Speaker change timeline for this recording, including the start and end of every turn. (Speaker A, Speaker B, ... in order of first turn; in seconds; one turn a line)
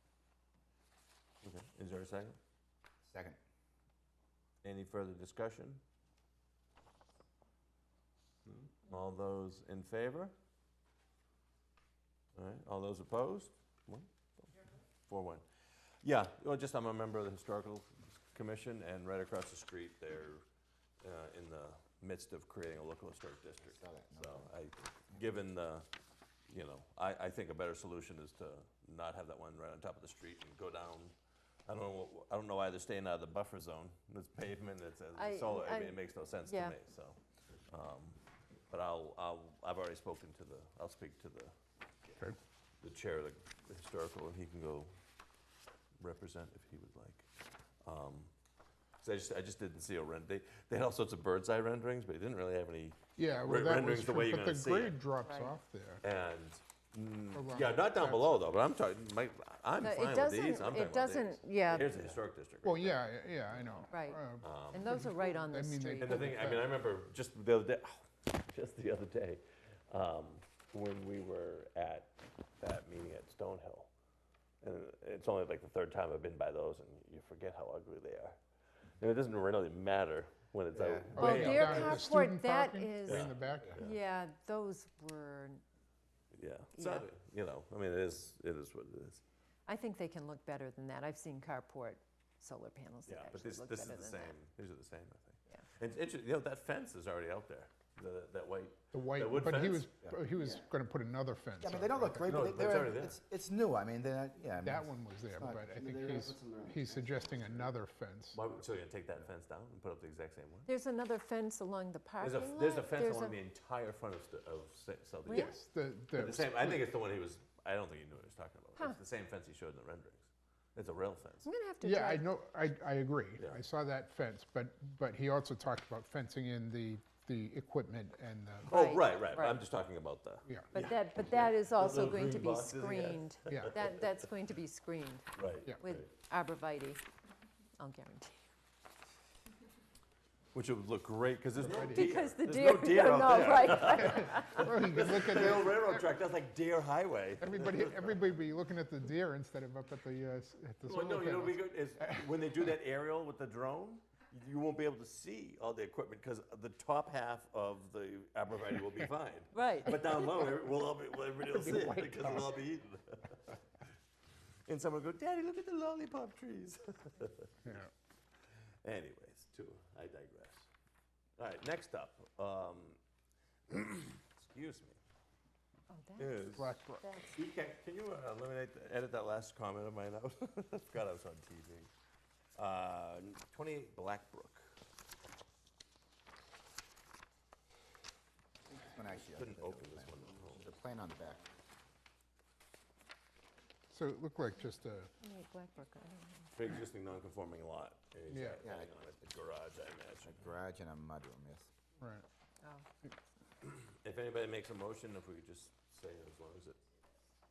Speaker A: 1.4-2.4
Speaker B: 3.0-3.4
Speaker A: 4.6-5.8
Speaker A: 8.5-10.3
Speaker A: 12.3-20.4
Speaker A: 21.0-25.9
Speaker B: 23.7-24.5
Speaker A: 26.5-31.1
Speaker A: 31.7-41.5
Speaker C: 35.1-36.8
Speaker A: 42.8-44.9
Speaker A: 46.0-47.3
Speaker A: 47.8-48.3
Speaker A: 49.0-55.0
Speaker D: 53.2-56.0
Speaker C: 55.2-55.5
Speaker A: 56.0-63.9
Speaker D: 57.3-58.4
Speaker C: 59.8-62.1
Speaker D: 62.6-66.7
Speaker C: 63.9-66.3
Speaker A: 64.4-64.9
Speaker A: 66.0-73.9
Speaker A: 74.6-78.4
Speaker A: 79.0-82.1
Speaker B: 80.7-81.3
Speaker D: 81.2-83.8
Speaker C: 81.2-85.6
Speaker A: 83.0-84.0
Speaker A: 86.3-89.2
Speaker C: 86.7-87.1
Speaker C: 89.7-94.3
Speaker A: 93.1-99.9
Speaker D: 98.9-102.4
Speaker B: 100.0-100.3
Speaker B: 101.6-105.8
Speaker A: 102.2-103.2
Speaker D: 104.6-108.4
Speaker A: 108.3-110.7
Speaker C: 110.7-113.4
Speaker A: 112.2-115.6
Speaker C: 115.3-115.6
Speaker D: 115.3-116.8
Speaker A: 116.1-121.5
Speaker C: 121.4-122.2
Speaker D: 121.8-128.9
Speaker A: 123.4-123.6
Speaker A: 128.6-134.2
Speaker C: 128.7-129.6
Speaker C: 130.7-137.0
Speaker D: 133.5-133.7
Speaker A: 135.3-136.1
Speaker C: 137.8-138.5
Speaker A: 140.5-148.3
Speaker D: 141.6-142.1
Speaker C: 141.8-144.6
Speaker D: 143.9-146.1
Speaker D: 147.4-152.3
Speaker A: 150.8-163.6
Speaker C: 159.5-160.6
Speaker A: 164.7-167.8
Speaker A: 168.8-170.7
Speaker A: 171.4-173.0
Speaker A: 173.7-175.0
Speaker C: 175.9-177.4
Speaker A: 176.2-176.8
Speaker D: 176.6-177.0
Speaker A: 177.3-181.9
Speaker A: 182.6-184.8
Speaker B: 188.7-191.4
Speaker A: 189.3-190.7
Speaker D: 193.9-195.1
Speaker C: 195.2-196.7
Speaker A: 196.5-200.5
Speaker D: 198.3-198.6
Speaker B: 198.6-198.9
Speaker B: 200.2-201.7
Speaker D: 202.0-202.2
Speaker A: 203.6-206.8